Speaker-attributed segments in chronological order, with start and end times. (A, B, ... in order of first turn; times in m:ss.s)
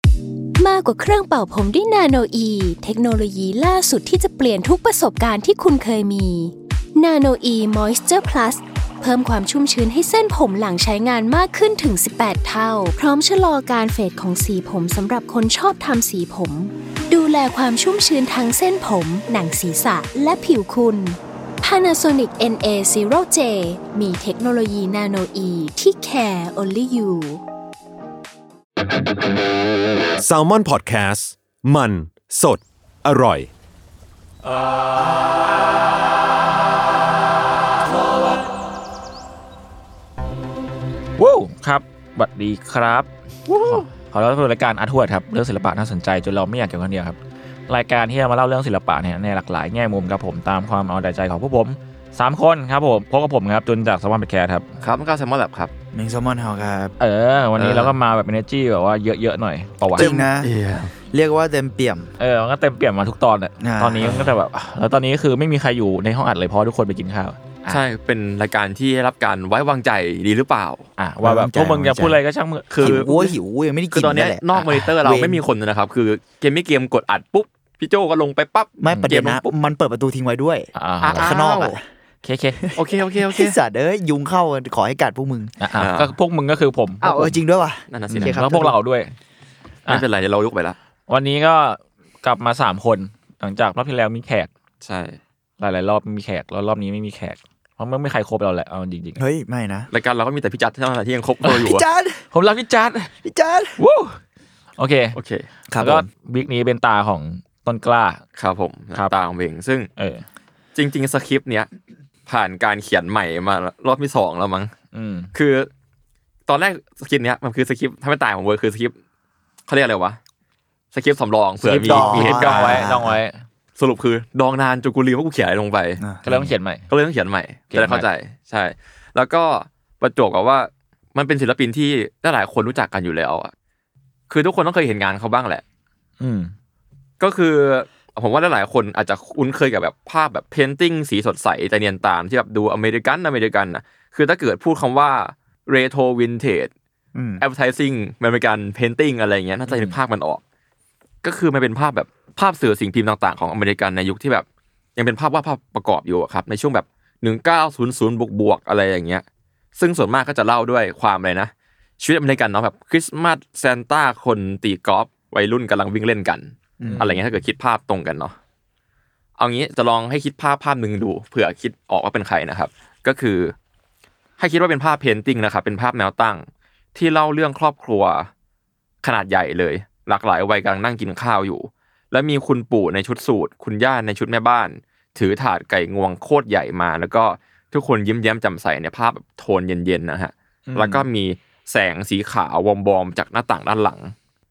0:00.6-0:27.4 A
0:30.2-0:33.5 B
0:41.2-0:47.2 C
0:43.5-0:43.8 D
0:47.7-0:54.7 C
0:54.8-0:55.7 D
0:55.9-0:56.9 E
0:57.0-1:00.2 C
0:57.6-0:57.9 D
0:59.8-1:00.9 D
1:00.0-1:00.5 E
1:01.1-1:02.1 E
1:02.2-1:07.8 C
1:03.6-1:04.3 E
1:07.7-1:10.9 D
1:11.0-1:13.1 C
1:11.2-1:12.2 E
1:12.7-1:13.3 D
1:12.8-1:15.4 E
1:13.9-1:19.5 D
1:18.8-1:21.8 E
1:18.9-1:19.2 C
1:20.8-1:21.4 C
1:21.0-1:21.8 D
1:22.2-1:22.7 C
1:22.6-1:25.6 E
1:22.7-1:23.6 D
1:25.6-1:27.4 C
1:25.8-1:26.1 D
1:27.0-1:28.8 E
1:27.9-1:28.4 D
1:28.1-1:29.1 C
1:29.8-1:30.8 D
1:31.1-1:34.5 C
1:34.8-1:35.2 D
1:35.6-1:39.2 C
1:39.2-1:39.9 E
1:39.9-1:41.8 D
1:41.4-1:42.3 E
1:42.3-1:43.1 C
1:43.2-1:43.8 E
1:43.8-1:44.2 C
1:44.8-1:45.2 C
1:45.1-1:45.5 D
1:45.7-1:46.1 E
1:45.8-1:48.2 C
1:48.4-1:49.9 D
1:50.0-1:50.2 C
1:50.7-1:51.7 D
1:52.2-1:54.7 D
1:54.9-1:55.3 C
1:55.3-1:55.7 D
1:56.5-1:59.0 D
1:59.7-2:00.2 D
2:00.9-2:02.9 D
2:01.6-2:03.4 C
2:01.9-2:03.2 E
2:03.8-2:06.0 D
2:06.0-2:06.5 E
2:06.2-2:06.9 C
2:06.9-2:13.5 D
2:07.7-2:08.0 C
2:14.3-2:15.6 D
2:16.2-2:16.5 C
2:17.2-2:26.7 D
2:27.1-2:27.4 E
2:27.4-2:30.4 D
2:29.7-2:29.9 C
2:31.2-2:39.2 D
2:39.8-2:48.4 D
2:46.8-2:47.0 E
2:46.8-2:47.2 C
2:49.4-2:53.5 D
2:54.4-2:58.3 D
2:59.0-3:14.1 D
3:10.7-3:11.0 C